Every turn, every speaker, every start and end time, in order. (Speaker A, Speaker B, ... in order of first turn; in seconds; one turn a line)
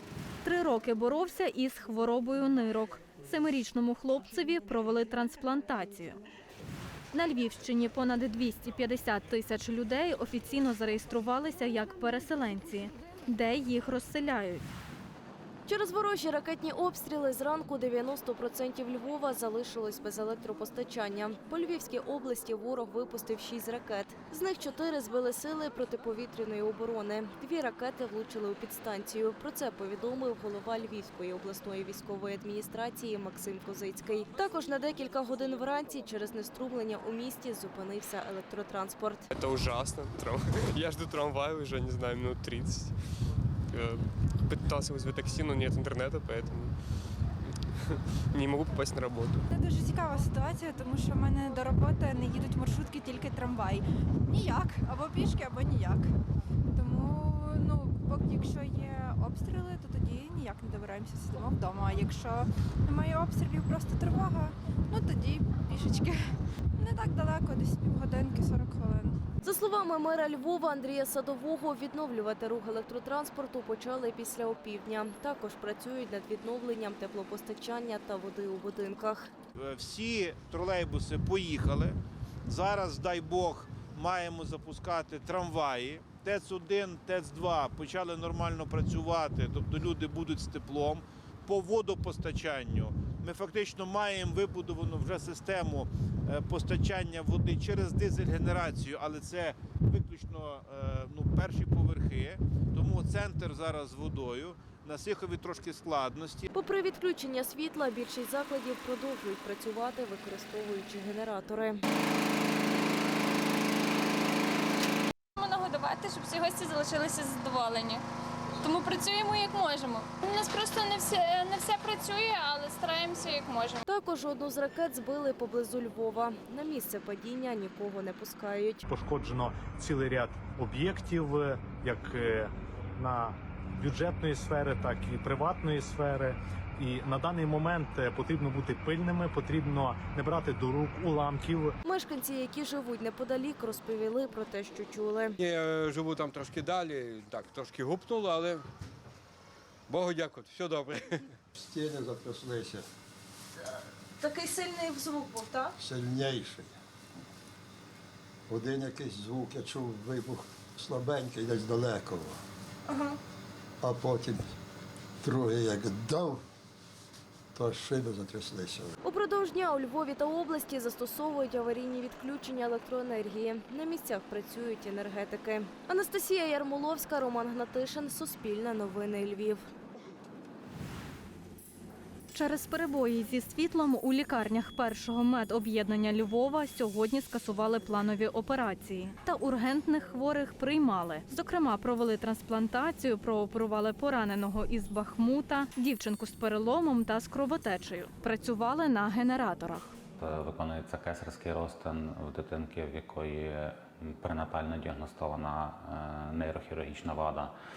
Speaker A: 0.4-6.2
Speaker A: 7.1-14.7
Speaker B: 15.7-39.3
Speaker C: 39.3-43.1
Speaker C: 43.7-46.9
Speaker C: 48.3-49.4
Speaker D: 49.5-56.1
Speaker D: 56.7-66.2
Speaker D: 66.8-69.2
Speaker B: 69.4-79.3
Speaker E: 79.6-82.0
Speaker E: 82.5-106.5
Speaker B: 106.5-111.8
Speaker F: 115.4-118.0
Speaker F: 118.6-123.8
Speaker B: 123.8-128.8
Speaker G: 128.9-141.7
Speaker B: 141.8-145.4
Speaker H: 145.4-148.6
Speaker H: 149.9-151.0
Speaker I: 151.6-152.8
Speaker B: 154.2-155.7
Speaker I: 155.8-156.7
Speaker I: 158.5-162.4
Speaker I: 163.8-164.5
Speaker I: 165.2-166.4
Speaker I: 167.6-168.9
Speaker B: 169.0-179.7
Speaker A: 182.3-199.9
Speaker J: 200.2-207.5